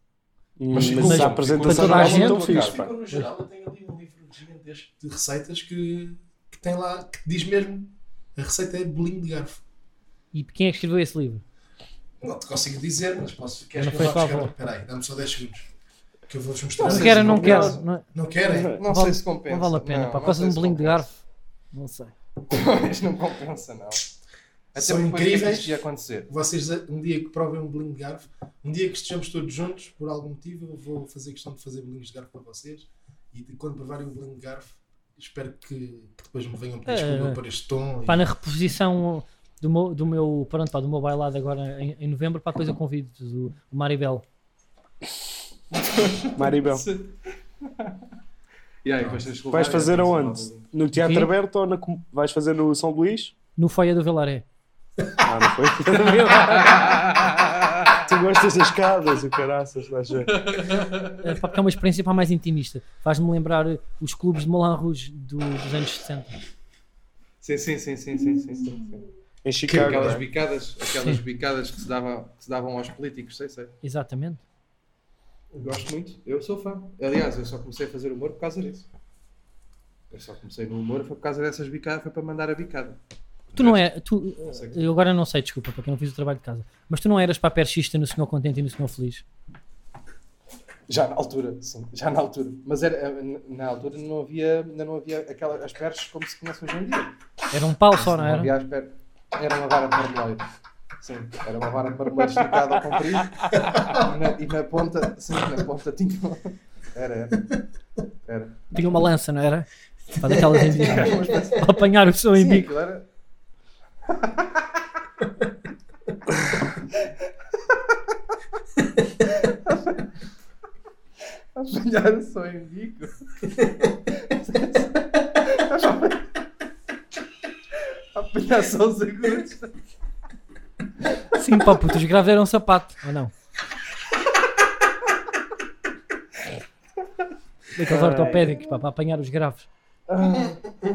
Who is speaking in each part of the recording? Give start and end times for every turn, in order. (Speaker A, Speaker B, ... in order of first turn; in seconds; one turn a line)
Speaker A: 0.6-2.9
Speaker B: 0.7-2.9
Speaker C: 0.7-9.6
Speaker D: 1.0-2.4
Speaker D: 10.3-11.4
Speaker C: 12.2-15.7
Speaker D: 13.8-14.5
Speaker C: 16.3-18.8
Speaker B: 16.8-17.8
Speaker D: 16.8-18.1
Speaker A: 17.4-17.7
Speaker B: 18.7-21.1
Speaker D: 18.8-21.1
Speaker D: 21.7-22.1
Speaker B: 22.5-24.1
Speaker B: 24.7-26.3
Speaker C: 24.7-25.8
Speaker C: 26.3-38.2
Speaker D: 36.9-37.4
Speaker D: 38.0-44.2
Speaker B: 45.7-48.0
Speaker A: 46.4-46.9
Speaker B: 48.8-50.7
Speaker A: 49.5-53.3
Speaker D: 50.9-51.3
Speaker D: 53.6-54.4
Speaker A: 55.2-57.0
Speaker B: 56.1-58.0
Speaker A: 58.0-60.5
Speaker B: 60.2-61.3
Speaker D: 61.2-66.3
Speaker B: 67.4-69.0
Speaker A: 69.4-70.2
Speaker C: 69.7-70.2
Speaker B: 69.7-73.7
Speaker D: 73.8-74.4
Speaker B: 75.5-78.9
Speaker B: 80.1-83.0
Speaker B: 83.5-83.9
Speaker D: 83.5-89.2
Speaker B: 84.4-84.9
Speaker B: 90.9-97.1
Speaker D: 97.5-98.5
Speaker B: 97.9-100.4
Speaker B: 101.0-107.6
Speaker B: 108.3-108.6
Speaker D: 108.7-109.7
Speaker D: 110.2-112.7
Speaker C: 110.3-111.1
Speaker B: 110.6-113.0
Speaker B: 114.1-114.6
Speaker B: 119.4-120.0
Speaker B: 121.5-123.5
Speaker B: 124.2-126.2
Speaker B: 128.1-129.7
Speaker D: 131.3-133.3
Speaker D: 137.7-139.7
Speaker A: 137.9-138.5
Speaker B: 138.4-138.8
Speaker B: 140.1-140.6
Speaker C: 140.2-140.5